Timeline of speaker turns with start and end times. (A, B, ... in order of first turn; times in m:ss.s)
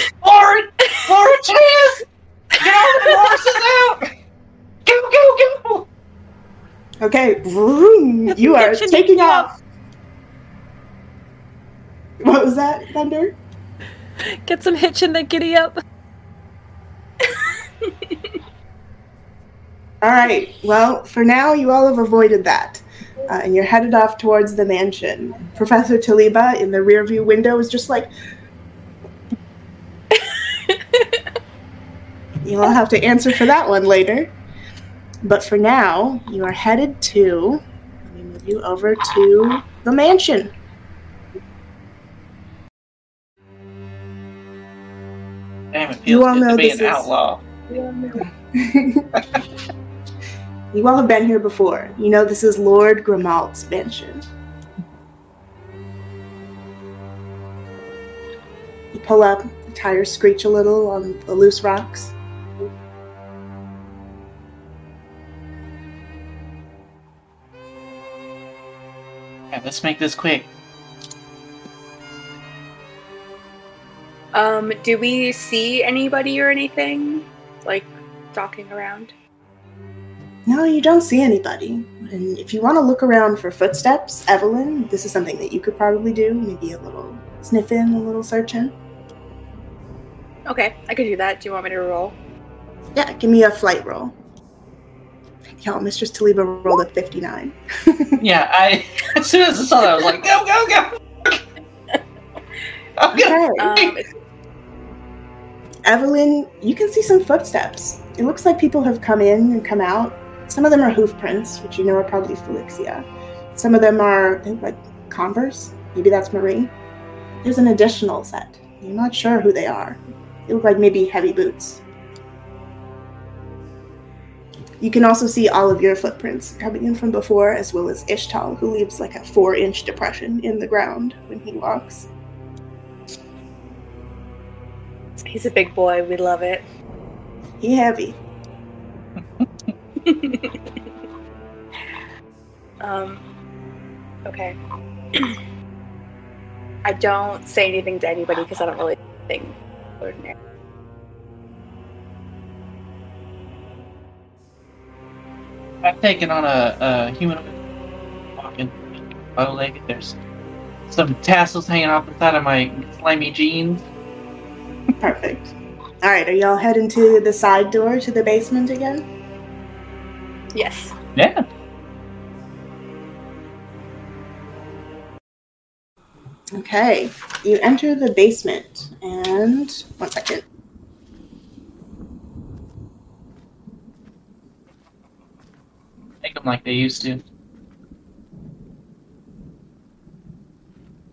0:00.2-0:04.1 A
0:00.9-0:01.5 B
0:02.7-0:03.3 B
0:04.8-0:05.8 A
0:07.0-0:09.6 C
0:08.3-0:09.5 D
0:12.2-0:13.4 C
0:14.4-0:15.8 D
0:17.2-0:18.2 B
0:20.0-0:28.1 C
0:30.1-0:31.2 B
0:32.4-0:34.3 C
0:35.2-0:40.5 C
0:45.7-0:47.4 A
0:46.0-0:47.1 C
0:47.7-0:48.2 B
0:48.2-0:49.1 C
0:50.7-0:54.2 C
0:58.9-1:02.1 C
1:09.5-1:10.5 A
1:14.3-1:19.1 B
1:20.5-1:28.7 C
1:30.5-1:32.2 B
1:32.9-1:34.1 C
1:35.5-1:38.2 C
1:38.2-1:41.4 A
1:43.0-1:43.9 A
1:43.1-1:43.7 C
1:43.6-1:44.0 B
1:45.8-1:56.7 C
1:57.4-2:01.8 C
2:04.8-2:12.1 C
2:15.2-2:16.6 B
2:17.6-2:18.2 C
2:20.0-2:20.7 B
2:22.8-2:23.2 B
2:24.2-2:24.6 B
2:26.8-2:30.3 B
2:35.8-2:37.6 A
2:38.4-2:40.2 A
2:40.9-2:43.8 A
2:45.0-2:49.1 C
2:50.5-2:51.0 B
2:51.2-2:51.4 A
2:56.5-3:00.4 C
3:06.2-3:07.2 A